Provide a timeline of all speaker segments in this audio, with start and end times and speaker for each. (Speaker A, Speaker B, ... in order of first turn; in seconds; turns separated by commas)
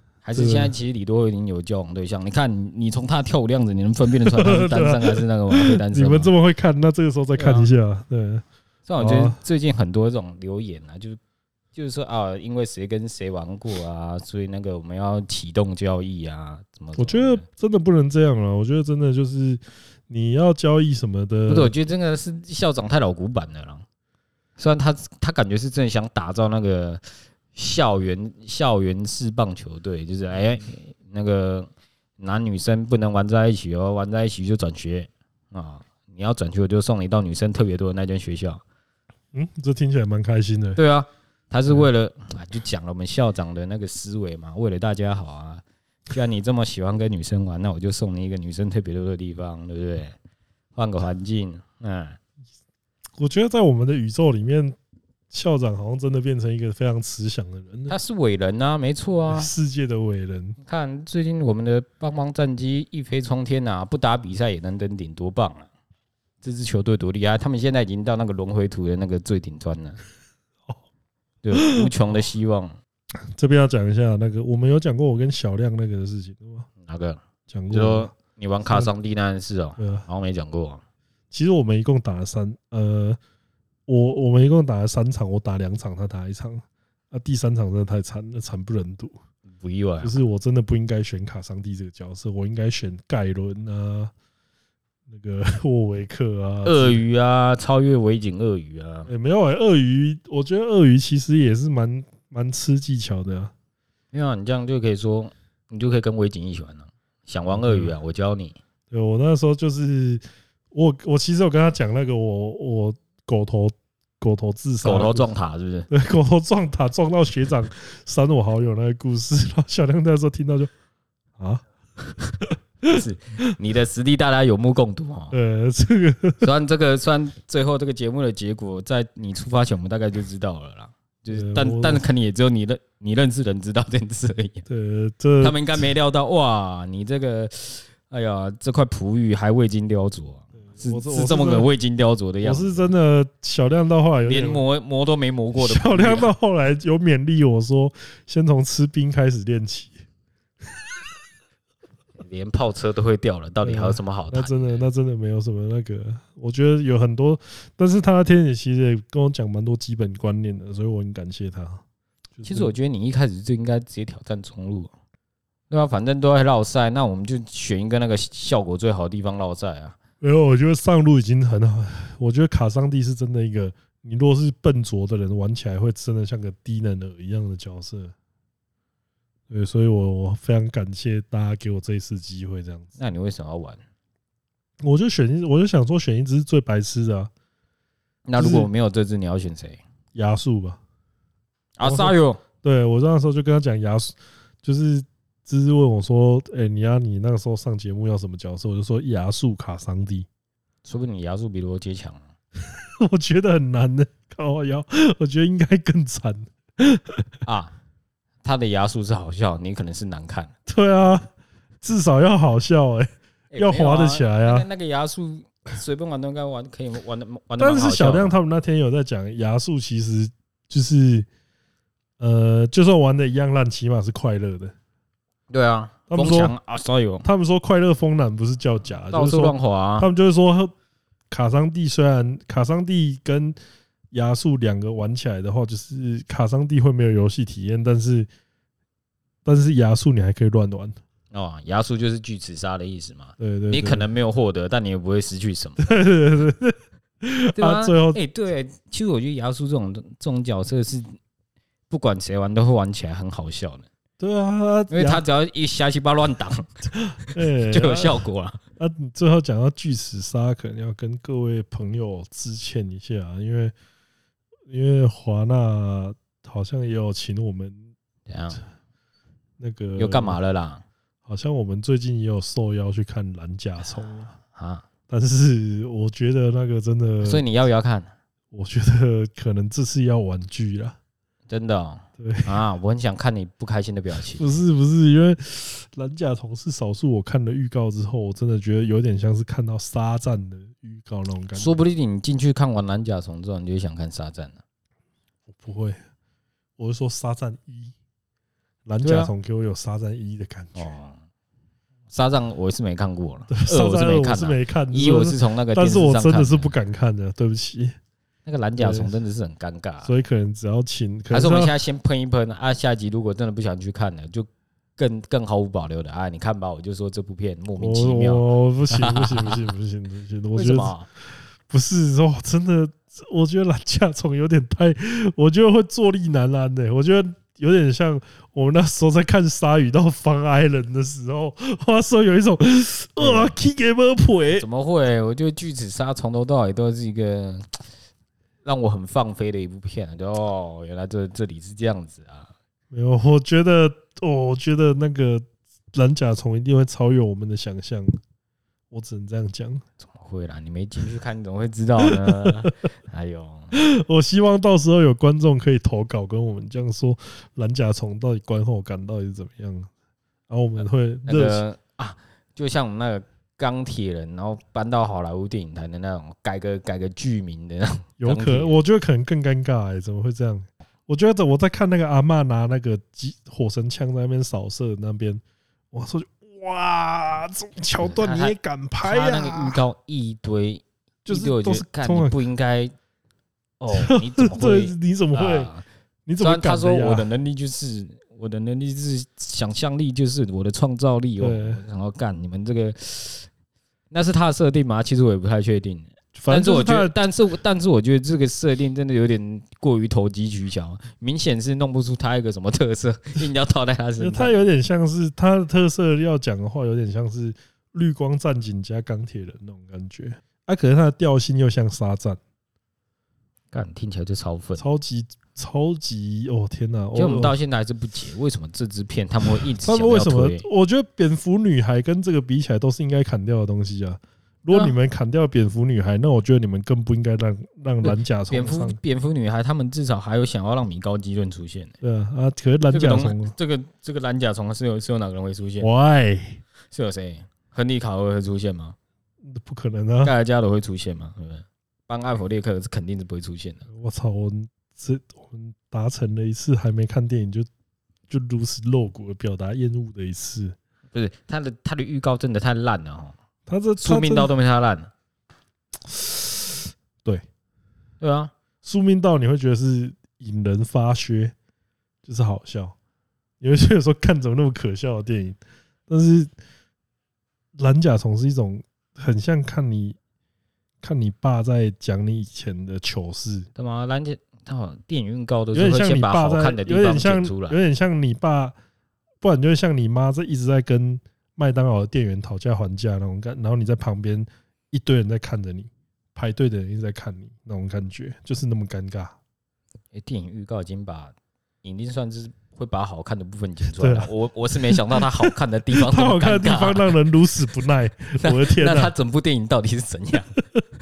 Speaker A: 0.2-6.3, Speaker B: 0.3-0.7, Speaker B: 4.2-8.4, Speaker A: 7.4-7.7, Speaker A: 8.9-11.2, Speaker B: 9.0-9.4, Speaker A: 11.8-17.4, Speaker B: 17.0-21.7, Speaker A: 21.5-23.9, Speaker A: 24.6-38.6, Speaker B: 39.3-40.8, Speaker A: 40.8-50.1, Speaker A: 50.8-52.2, Speaker B: 53.2-54.8, Speaker B: 55.3-58.0, Speaker A: 57.9-59.5, Speaker B: 59.3-60.6, Speaker A: 60.6-65.7, Speaker A: 66.4-70.0, Speaker A: 71.4-72.8, Speaker B: 71.5-71.9, Speaker B: 73.3-76.7, Speaker A: 76.8-80.8, Speaker B: 77.5-78.1, Speaker B: 79.8-80.0, Speaker B: 81.3-83.2, Speaker B: 83.9-89.2, Speaker A: 89.5-90.2, Speaker B: 90.0-94.1, Speaker B: 95.1-97.0, Speaker A: 96.6-99.1, Speaker B: 99.1-103.5, Speaker A: 104.1-108.6, Speaker B: 107.5-107.9, Speaker B: 108.9-115.3, Speaker A: 114.8-115.9, Speaker B: 115.9-120.7, Speaker B: 121.4-121.6, Speaker B: 122.4-123.0, Speaker A: 122.9-125.3, Speaker B: 125.3-126.5, Speaker A: 126.4-134.6, Speaker B: 131.3-132.1, Speaker B: 134.7-135.9, Speaker A: 135.4-142.9, Speaker B: 140.7-141.7, Speaker B: 142.4-144.6, Speaker A: 144.2-146.3, Speaker B: 145.6-150.0, Speaker A: 152.2-154.8, Speaker B: 153.6-161.8, Speaker B: 162.4-162.7, Speaker A: 162.4-164.9, Speaker A: 165.7-170.0, Speaker B: 170.2-178.1, Speaker B: 179.5-182.9, Speaker A: 183.0-183.8, Speaker B: 184.8-187.3, Speaker A: 188.3-189.8, Speaker B: 188.4-188.7, Speaker B: 190.1-190.8, Speaker A: 191.8-192.4, Speaker B: 191.8-200.3, Speaker A: 200.8-202.2, Speaker B: 203.0-207.2, Speaker A: 207.4-207.7, Speaker A: 208.4-210.5, Speaker B: 210.7-211.3, Speaker B: 211.8-214.7, Speaker A: 213.5-218.3, Speaker B: 217.6-221.3, Speaker B: 222.2-224.7, Speaker A: 225.5-227.3, Speaker B: 226.1-226.5, Speaker B: 227.2-230.7, Speaker A: 229.1-230.1, Speaker B: 231.3-233.6, Speaker B: 234.1-238.3, Speaker B: 239.4-241.0, Speaker A: 241.3-245.9, Speaker B: 243.4-244.1, Speaker B: 245.8-248.2, Speaker A: 247.6-251.2, Speaker A: 251.9-253.8, Speaker B: 254.2-255.2, Speaker A: 254.9-256.7, Speaker B: 256.9-258.2, Speaker A: 257.2-258.6, Speaker B: 258.8-263.7, Speaker B: 264.7-267.9, Speaker A: 268.3-268.6, Speaker B: 269.6-270.4, Speaker A: 270.0-270.8, Speaker B: 271.3-274.3, Speaker A: 274.5-274.9, Speaker B: 275.1-277.4, Speaker A: 277.2-278.1, Speaker B: 278.5-281.0, Speaker A: 281.5-284.5, Speaker B: 282.2-282.6, Speaker B: 284.3-291.8, Speaker A: 291.6-294.6, Speaker B: 295.5-296.0, Speaker B: 296.8-297.9, Speaker B: 298.9-300.9, Speaker A: 299.0-299.3, Speaker A: 300.8-301.2, Speaker A: 302.1-306.7, Speaker B: 303.5-307.9, Speaker A: 308.4-310.1, Speaker B: 308.8-309.1, Speaker B: 310.0-311.7, Speaker A: 311.3-319.7, Speaker B: 317.8-320.9, Speaker A: 320.6-321.1, Speaker B: 321.7-334.7, Speaker A: 333.2-333.6, Speaker A: 334.6-337.8, Speaker A: 338.6-342.5, Speaker B: 342.9-348.2, Speaker B: 348.9-349.8, Speaker A: 350.0-353.7, Speaker B: 352.0-352.8, Speaker B: 353.7-359.9, Speaker B: 360.5-361.6, Speaker A: 361.3-368.8, Speaker B: 368.2-379.8, Speaker A: 378.0-382.9, Speaker B: 381.3-382.4, Speaker A: 383.8-385.9, Speaker B: 383.9-385.7, Speaker B: 386.3-387.3, Speaker A: 386.4-393.5, Speaker B: 391.4-391.8, Speaker A: 394.1-404.6, Speaker B: 396.4-397.1, Speaker B: 404.2-412.4, Speaker A: 413.7-414.9, Speaker B: 414.8-417.6, Speaker A: 417.1-420.7, Speaker B: 419.8-429.0, Speaker A: 428.0-431.9, Speaker B: 432.0-433.5, Speaker A: 432.9-435.9, Speaker B: 435.8-436.6, Speaker A: 436.9-439.0, Speaker B: 439.5-440.3, Speaker A: 440.2-443.8, Speaker B: 443.9-447.7, Speaker B: 448.3-450.8, Speaker A: 451.1-453.3, Speaker B: 453.7-454.5, Speaker A: 454.0-455.1, Speaker B: 456.1-456.7, Speaker A: 458.2-458.5, Speaker B: 458.8-461.5, Speaker B: 462.2-462.9, Speaker B: 463.6-466.5, Speaker B: 467.8-470.2, Speaker B: 471.0-473.7, Speaker A: 473.8-477.8, Speaker B: 475.7-478.8, Speaker B: 479.4-489.4, Speaker A: 490.1-497.1, Speaker B: 493.9-494.3, Speaker B: 494.9-499.1, Speaker A: 498.4-500.5